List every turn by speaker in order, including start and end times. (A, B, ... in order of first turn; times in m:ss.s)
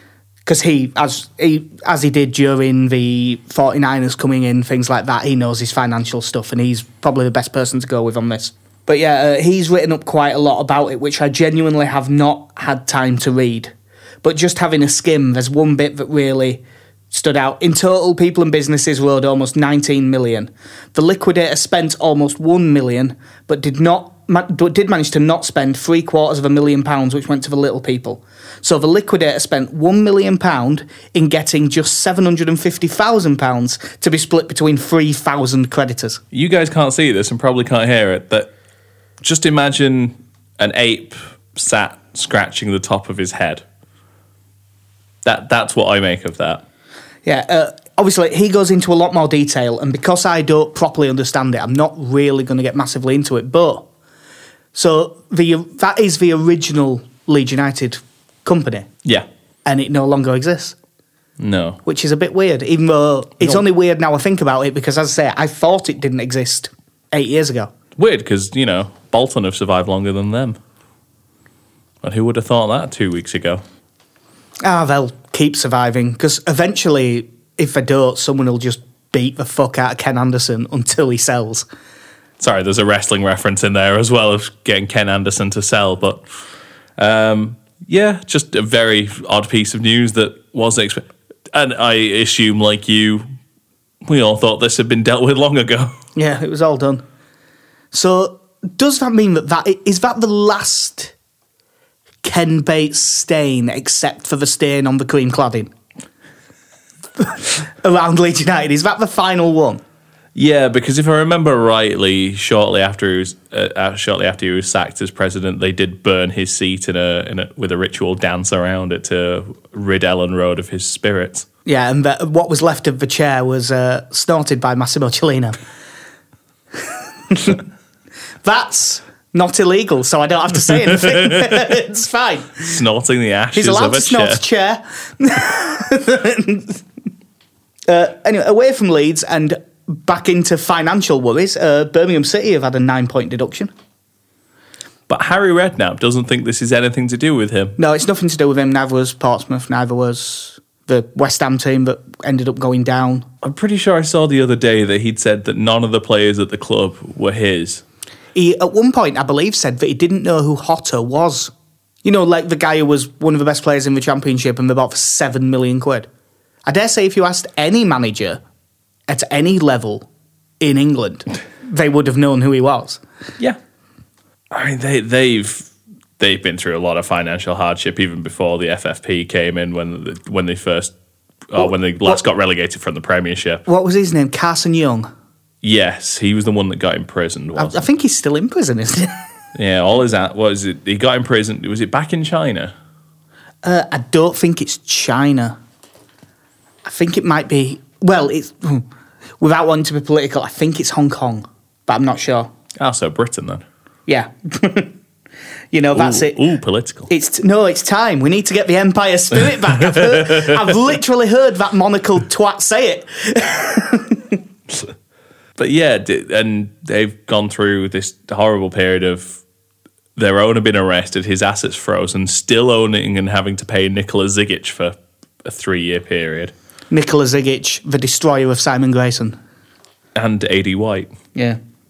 0:00.4-0:36.2 A
0:36.3-0:38.5 B
0:39.2-0:43.6 B
0:45.2-0:46.6 B
0:47.2-0:53.9 A
0:54.7-0:58.9 A
0:59.6-1:00.8 A
1:01.4-1:01.8 B
1:01.8-1:07.7 A
1:08.0-1:10.6 B
1:12.0-1:13.6 B
1:14.6-1:21.7 A
1:22.4-1:26.2 B
1:27.0-1:33.2 B
1:34.0-1:36.0 B
1:36.1-1:37.0 A
1:37.9-1:41.1 A
1:42.2-1:45.7 A
1:47.2-1:49.8 A
1:50.3-2:01.4 B
2:01.6-2:05.6 A
2:06.7-2:07.6 A
2:08.4-2:12.7 A
2:10.9-2:11.6 B
2:12.6-2:14.4 B
2:13.5-2:16.8 A
2:17.9-2:23.7 A
2:25.1-2:27.8 B
2:27.8-2:33.3 A
2:33.4-2:37.8 B
2:38.3-2:41.5 A
2:42.0-2:46.1 A
2:46.6-2:48.4 A
2:49.1-2:50.1 A
2:50.6-2:53.0 A
2:54.5-3:00.9 B
3:01.5-3:03.6 B
3:01.6-3:02.2 A
3:03.6-3:05.1 A
3:05.6-3:07.8 B
3:07.5-3:09.2 A
3:09.5-3:12.7 B
3:13.6-3:15.6 A
3:16.8-3:18.8 A
3:19.4-3:22.5 A
3:22.8-3:23.6 B
3:24.1-3:24.9 A
3:25.7-3:26.4 A
3:25.9-3:27.1 B
3:27.1-3:34.4 A
3:29.5-3:30.7 B
3:35.6-3:39.4 B
3:40.2-3:46.5 B
3:46.9-3:49.4 A
3:50.1-3:51.1 B